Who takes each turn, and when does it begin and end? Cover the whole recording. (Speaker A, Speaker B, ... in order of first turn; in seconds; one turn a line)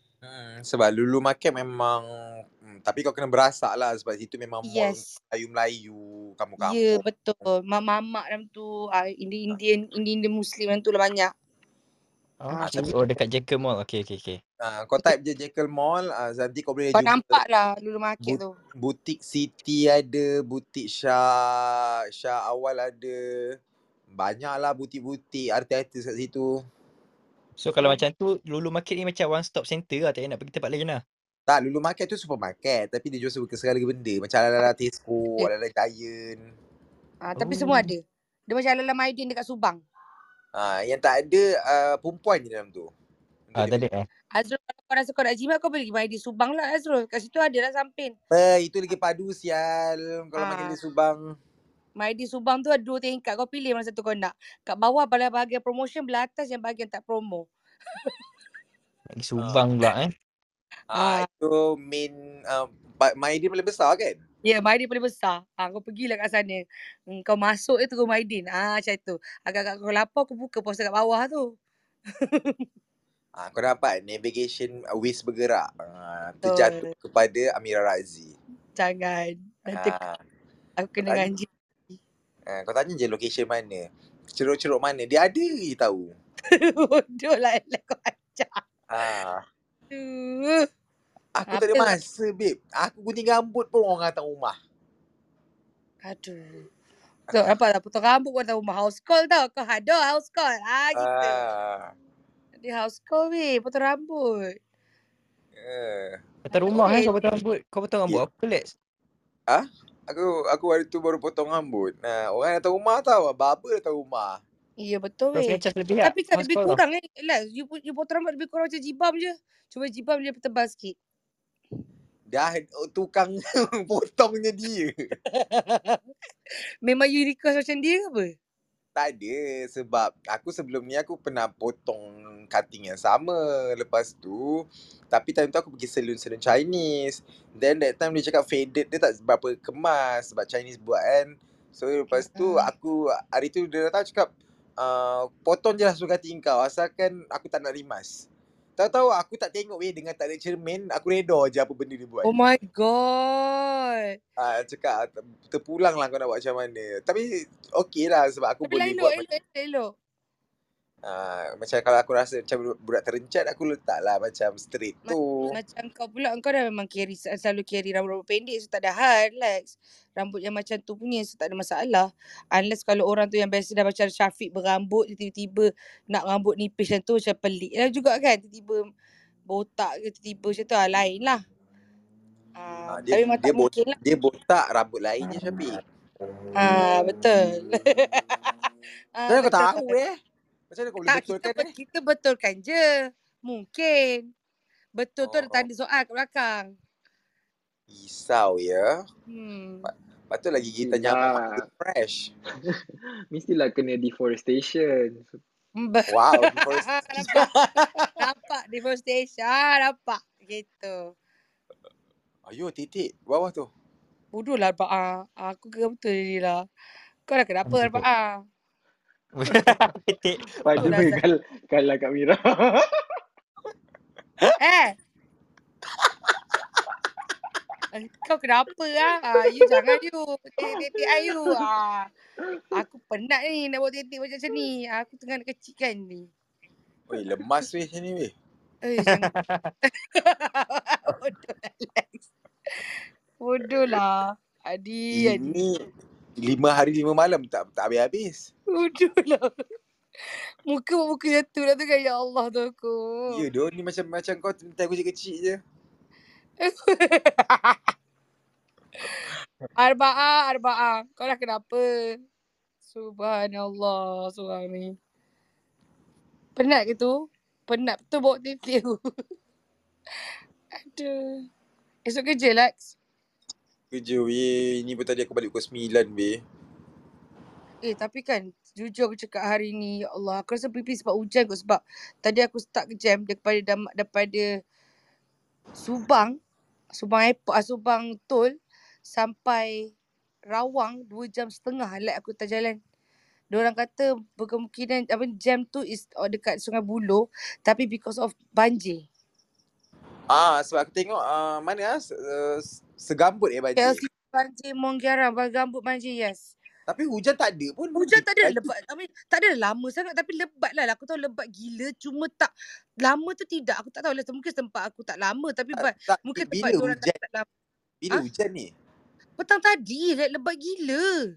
Speaker A: 0.2-7.0
Speaker B: 4.7-5.2
Speaker B: 6.6-11.3
Speaker C: 12.4-14.4
Speaker B: 12.5-12.9
Speaker A: 12.6-12.9
Speaker A: 14.6-17.4
Speaker B: 16.9-18.5
Speaker A: 18.2-23.6
Speaker A: 24.1-26.6
Speaker C: 27.6-31.0
Speaker A: 31.5-36.5
Speaker B: 37.2-39.8
Speaker C: 37.4-37.9
Speaker A: 40.5-42.9
Speaker A: 43.5-43.9
Speaker C: 43.6-44.1
Speaker B: 44.4-48.1
Speaker A: 48.3-51.4
Speaker B: 50.4-50.8
Speaker B: 52.0-57.5
Speaker C: 59.1-60.1
Speaker A: 59.4-59.6
Speaker A: 60.9-64.2
Speaker B: 60.9-61.3
Speaker B: 64.5-71.5
Speaker B: 72.2-72.6
Speaker A: 73.4-78.4
Speaker B: 76.5-76.9
Speaker B: 78.8-80.0
Speaker A: 79.7-80.2
Speaker B: 80.8-82.0
Speaker A: 82.5-86.1
Speaker B: 86.5-88.6
Speaker A: 88.9-89.4
Speaker B: 89.9-90.7
Speaker A: 91.3-94.6
Speaker B: 91.5-92.0
Speaker B: 96.0-96.7
Speaker B: 97.3-101.4
Speaker A: 100.9-101.9
Speaker B: 102.6-104.6
Speaker A: 105.5-106.2
Speaker C: 106.5-108.7
Speaker B: 106.5-107.1
Speaker A: 109.5-114.4
Speaker B: 114.8-121.0
Speaker C: 115.3-116.8
Speaker A: 122.3-125.0
Speaker B: 125.3-126.0
Speaker B: 126.8-128.3
Speaker A: 129.0-148.3
Speaker B: 142.1-142.7
Speaker A: 148.8-152.3
Speaker B: 152.2-154.2
Speaker A: 154.4-159.3
Speaker B: 158.7-159.9
Speaker A: 161.0-165.6
Speaker B: 165.1-178.8
Speaker B: 179.5-181.4
Speaker B: 182.6-183.9
Speaker A: 182.9-185.8
Speaker B: 186.6-188.2
Speaker B: 189.2-190.0
Speaker A: 189.3-190.2
Speaker A: 190.7-191.7
Speaker B: 191.1-194.3
Speaker B: 195.0-196.7
Speaker A: 195.2-195.7
Speaker A: 197.9-199.1
Speaker B: 199.3-199.9
Speaker A: 199.8-202.3
Speaker D: 200.8-201.7
Speaker D: 203.3-205.4
Speaker B: 205.8-207.5
Speaker A: 206.1-208.1
Speaker B: 208.2-211.1
Speaker A: 212.5-213.7
Speaker B: 214.3-216.6
Speaker B: 217.3-218.4
Speaker C: 217.7-218.1
Speaker C: 219.4-221.1
Speaker D: 220.6-222.9
Speaker B: 220.8-221.2
Speaker B: 224.6-224.9
Speaker B: 227.9-232.1
Speaker B: 232.7-236.3
Speaker A: 237.1-238.3
Speaker B: 238.8-239.3
Speaker C: 239.1-239.7
Speaker B: 240.2-242.3
Speaker B: 243.4-245.6
Speaker A: 245.1-245.8
Speaker A: 246.4-248.5
Speaker B: 248.7-249.6
Speaker B: 250.7-253.4
Speaker A: 253.3-255.6
Speaker B: 256.6-257.8
Speaker B: 259.8-262.2
Speaker B: 262.9-265.0
Speaker B: 266.6-269.0
Speaker B: 270.8-271.5
Speaker B: 272.1-272.9
Speaker A: 273.9-276.4
Speaker B: 277.8-284.5
Speaker B: 285.8-286.4
Speaker B: 286.9-288.5
Speaker B: 289.1-289.9
Speaker B: 290.5-292.8
Speaker B: 293.5-299.1
Speaker A: 300.3-304.0
Speaker B: 303.8-306.5
Speaker A: 306.9-308.7
Speaker B: 307.9-312.5
Speaker B: 313.0-317.5
Speaker A: 315.7-317.2
Speaker A: 318.0-318.7
Speaker B: 319.4-321.1